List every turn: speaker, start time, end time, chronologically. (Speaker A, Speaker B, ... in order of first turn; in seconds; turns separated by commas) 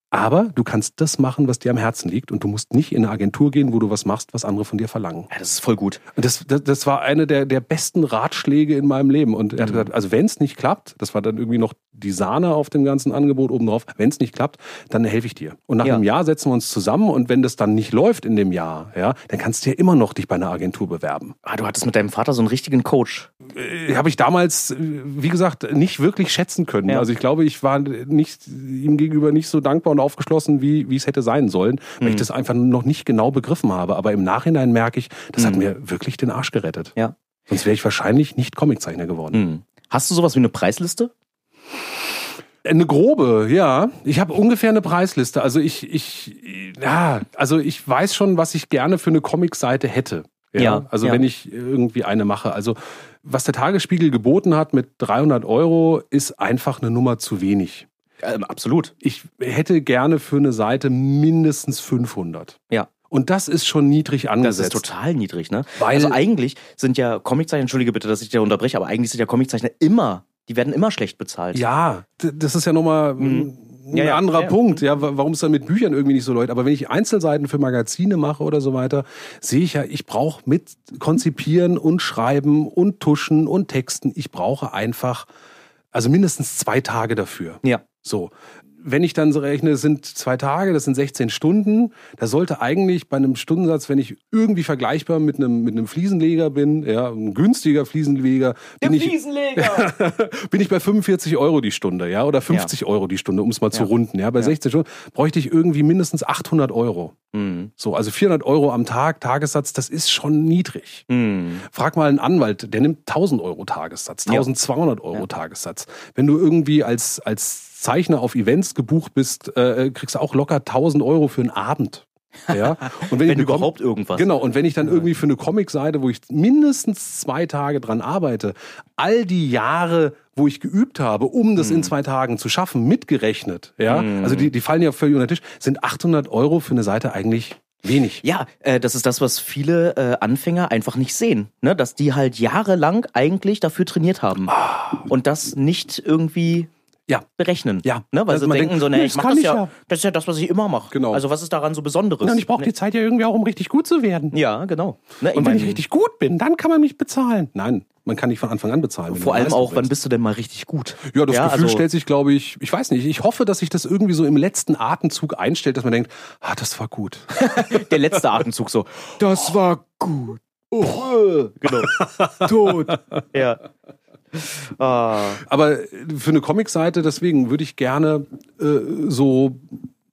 Speaker A: 0.1-5.3, Speaker B: 5.3-6.0, Speaker A: 6.2-21.4, Speaker B: 9.6-9.9, Speaker B: 21.4-23.3, Speaker A: 23.5-37.0, Speaker B: 32.0-32.3, Speaker B: 35.4-35.6, Speaker A: 37.5-39.4, Speaker B: 39.3-41.1, Speaker A: 42.6-57.9, Speaker B: 50.6-51.2, Speaker B: 58.2-58.9, Speaker A: 59.0-62.6, Speaker A: 63.1-64.8, Speaker B: 64.4-71.7, Speaker A: 65.8-66.2, Speaker A: 71.5-85.3, Speaker B: 73.2-74.8, Speaker A: 85.9-107.2, Speaker B: 98.8-99.9, Speaker B: 103.7-104.5, Speaker B: 107.3-107.7, Speaker A: 107.8-111.1, Speaker B: 111.1-111.6, Speaker A: 111.6-138.2, Speaker B: 122.5-124.3, Speaker B: 131.6-131.9, Speaker B: 133.9-134.5, Speaker B: 138.2-144.6, Speaker A: 144.5-145.1, Speaker B: 145.1-146.7, Speaker B: 147.4-152.7, Speaker A: 147.8-149.7, Speaker A: 150.9-151.2, Speaker A: 152.2-154.3, Speaker B: 154.3-155.8, Speaker A: 155.3-159.9, Speaker B: 159.1-161.8, Speaker A: 161.1-168.2, Speaker B: 167.4-173.6, Speaker A: 171.8-173.0, Speaker B: 174.3-175.4, Speaker A: 175.4-179.9